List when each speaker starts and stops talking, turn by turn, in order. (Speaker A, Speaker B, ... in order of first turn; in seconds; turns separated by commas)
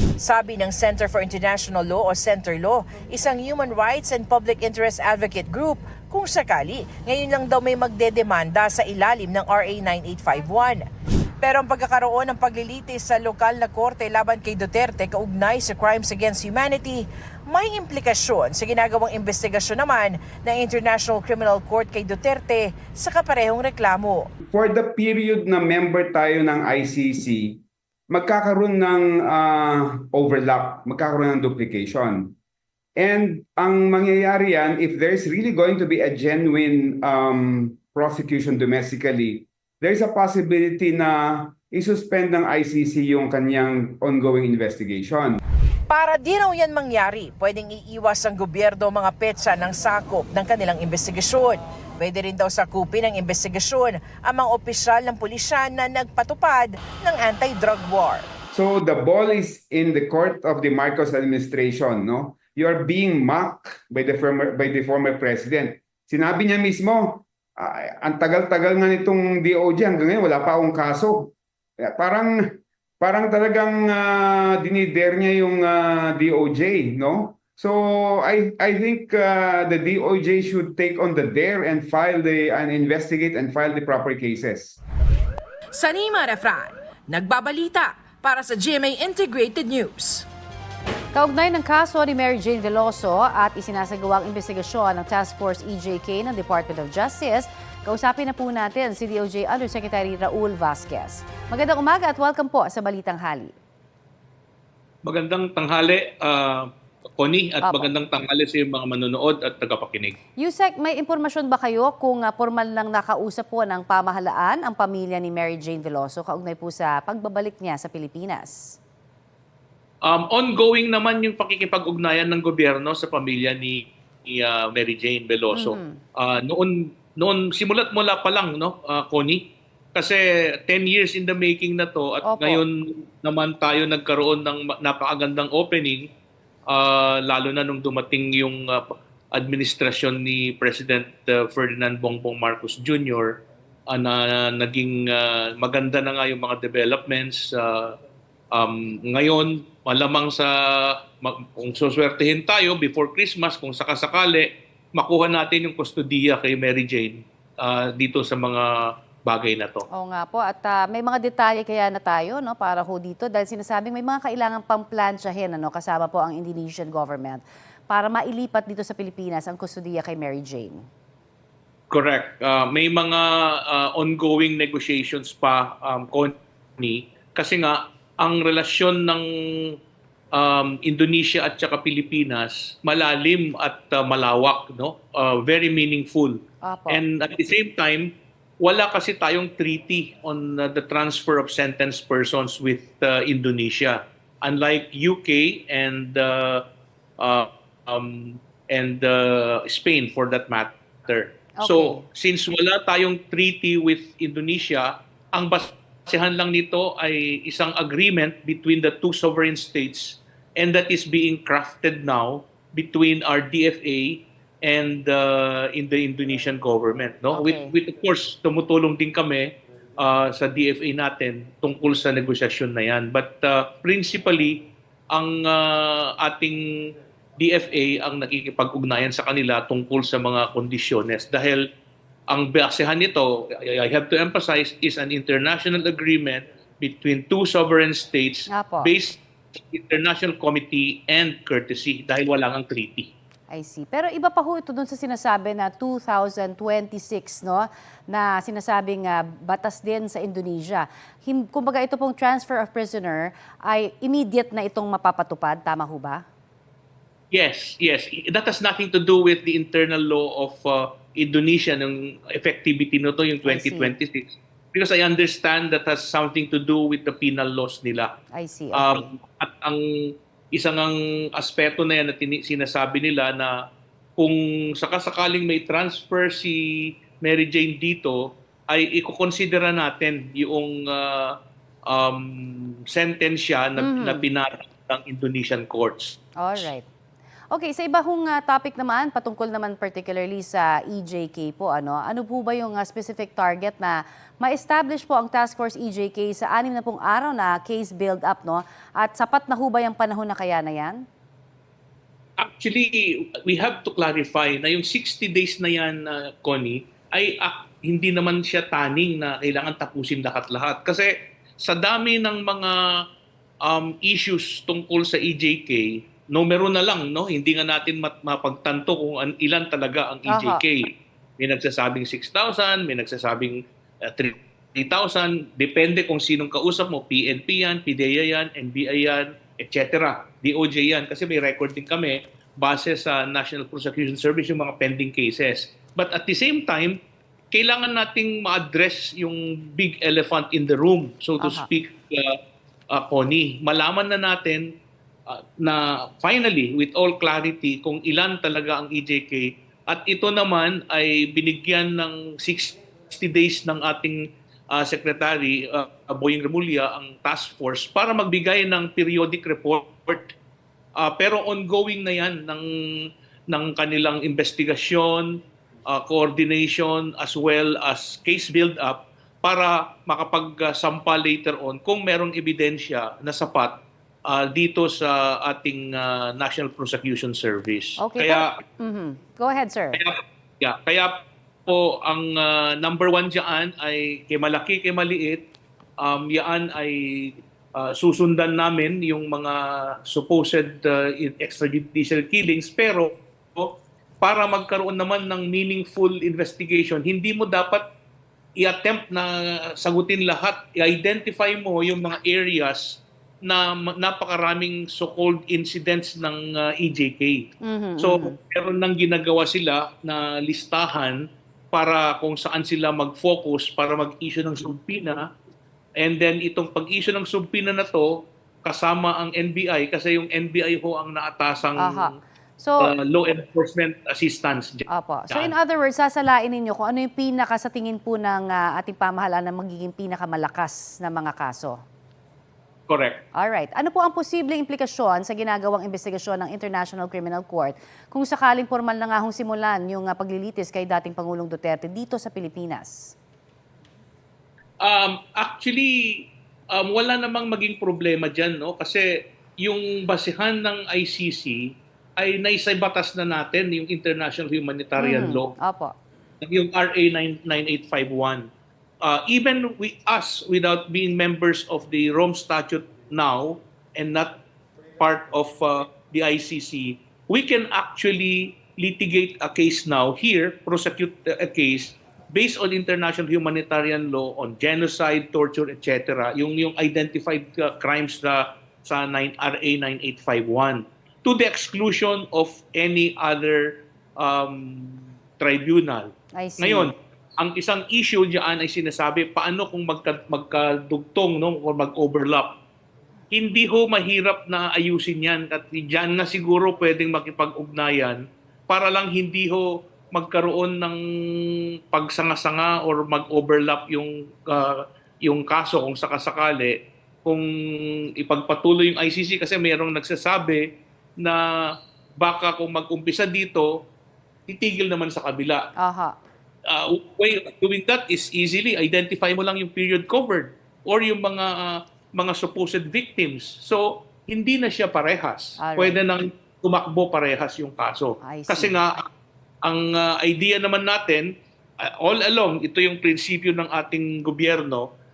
Speaker A: 0.2-10.8, Speaker A: 11.4-24.2, Speaker B: 24.5-32.3, Speaker B: 33.0-45.4, Speaker A: 45.9-58.2, Speaker B: 58.5-84.8, Speaker A: 85.7-90.2, Speaker C: 91.1-103.5, Speaker D: 105.0-110.2, Speaker C: 107.6-107.9, Speaker C: 110.4-118.8, Speaker D: 120.0-136.1, Speaker C: 125.5-126.0, Speaker C: 132.2-132.6, Speaker D: 136.7-143.4, Speaker D: 143.9-147.9, Speaker D: 148.5-159.8, Speaker C: 159.9-170.8, Speaker D: 171.9-179.7, Speaker D: 180.3-196.6, Speaker C: 186.6-187.0, Speaker D: 197.2-231.6, Speaker C: 201.6-202.0, Speaker C: 217.3-217.7, Speaker D: 232.3-243.1, Speaker C: 238.5-238.9, Speaker C: 243.5-256.2, Speaker D: 257.3-268.1, Speaker C: 263.4-263.9, Speaker C: 268.3-269.0, Speaker D: 268.7-269.8, Speaker D: 270.5-273.5, Speaker D: 274.2-276.6, Speaker D: 277.2-278.2, Speaker D: 278.7-281.3, Speaker D: 281.9-286.1, Speaker C: 283.8-284.2, Speaker C: 286.4-286.8, Speaker C: 287.5-301.0, Speaker D: 302.4-311.1, Speaker D: 311.6-312.8, Speaker D: 313.7-323.6, Speaker C: 320.3-320.6, Speaker D: 324.1-337.0, Speaker D: 337.5-342.4, Speaker C: 341.4-341.6, Speaker D: 342.9-344.7, Speaker D: 345.3-360.3, Speaker D: 361.0-362.6, Speaker D: 363.5-365.4, Speaker D: 365.9-378.5, Speaker C: 378.0-380.0, Speaker D: 379.9-385.5, Speaker D: 386.0-397.9, Speaker D: 398.6-407.5, Speaker C: 407.6-408.4, Speaker D: 408.0-411.2, Speaker D: 411.7-415.2, Speaker D: 416.0-418.1, Speaker D: 418.6-422.1, Speaker C: 421.8-422.9, Speaker D: 422.8-425.5, Speaker C: 424.9-431.8, Speaker D: 432.9-433.2, Speaker C: 433.3-443.1, Speaker D: 444.8-449.1, Speaker D: 449.6-455.5, Speaker C: 455.0-455.9, Speaker D: 456.4-458.5, Speaker D: 459.0-464.4, Speaker D: 465.0-492.5, Speaker C: 486.4-486.9, Speaker D: 493.3-510.6, Speaker D: 512.2-513.7, Speaker D: 514.5-515.6, Speaker C: 515.8-516.1, Speaker D: 516.7-529.0, Speaker C: 525.6-526.0, Speaker C: 528.2-528.8, Speaker D: 529.6-531.3, Speaker D: 531.8-534.9